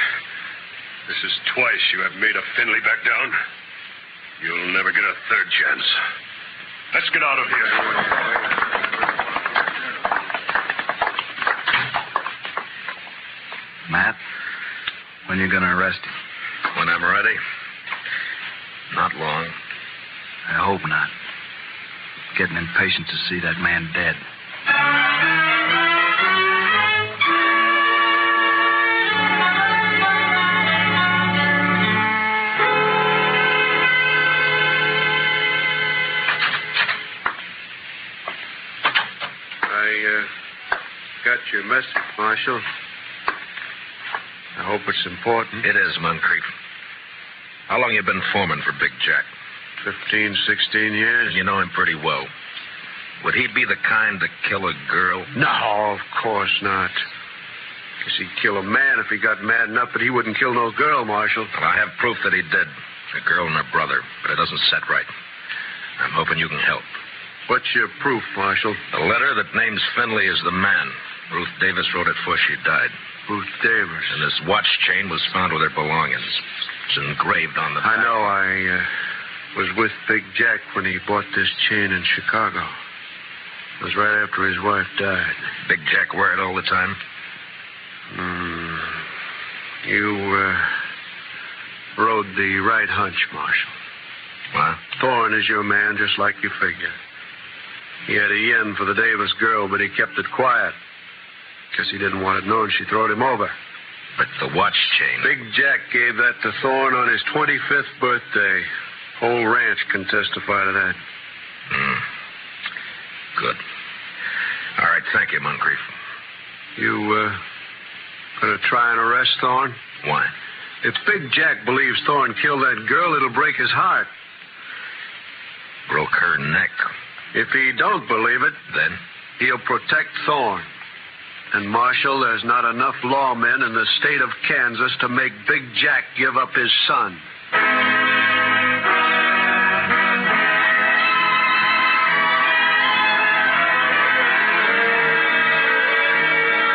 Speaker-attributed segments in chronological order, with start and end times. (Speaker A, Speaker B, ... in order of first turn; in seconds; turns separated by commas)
Speaker A: 1.1-3.4, Speaker A: 4.4-6.0, Speaker A: 6.9-8.0, Speaker B: 13.9-14.2, Speaker B: 15.3-16.1, Speaker C: 16.7-17.4, Speaker C: 18.9-19.6, Speaker B: 20.5-21.1, Speaker B: 22.3-24.2, Speaker D: 39.6-40.3, Speaker D: 41.2-42.6, Speaker D: 44.6-45.6, Speaker C: 45.6-46.5, Speaker C: 47.7-49.3, Speaker D: 49.8-51.4, Speaker C: 51.3-52.3, Speaker C: 53.2-55.3, Speaker D: 55.3-57.0, Speaker D: 58.0-61.5, Speaker C: 61.5-65.1, Speaker C: 66.0-66.9, Speaker D: 67.5-68.8, Speaker C: 68.9-73.0, Speaker D: 73.3-74.2, Speaker C: 74.1-78.2, Speaker D: 77.8-78.9, Speaker D: 79.5-82.8, Speaker D: 83.8-85.5, Speaker C: 85.6-87.0, Speaker D: 88.1-89.0, Speaker D: 89.8-90.8, Speaker D: 92.0-93.7, Speaker C: 94.5-94.8, Speaker D: 95.0-96.9, Speaker D: 98.1-100.8, Speaker D: 101.8-103.5, Speaker C: 104.2-105.3, Speaker D: 105.2-108.7, Speaker D: 109.2-111.0, Speaker C: 111.7-112.0, Speaker C: 113.4-113.6, Speaker C: 114.8-115.9, Speaker D: 116.8-117.4, Speaker D: 118.4-119.8, Speaker C: 120.0-120.3, Speaker D: 120.8-124.1, Speaker C: 125.9-126.9, Speaker D: 127.3-128.6, Speaker C: 128.7-129.0, Speaker D: 129.4-130.7, Speaker D: 131.5-137.2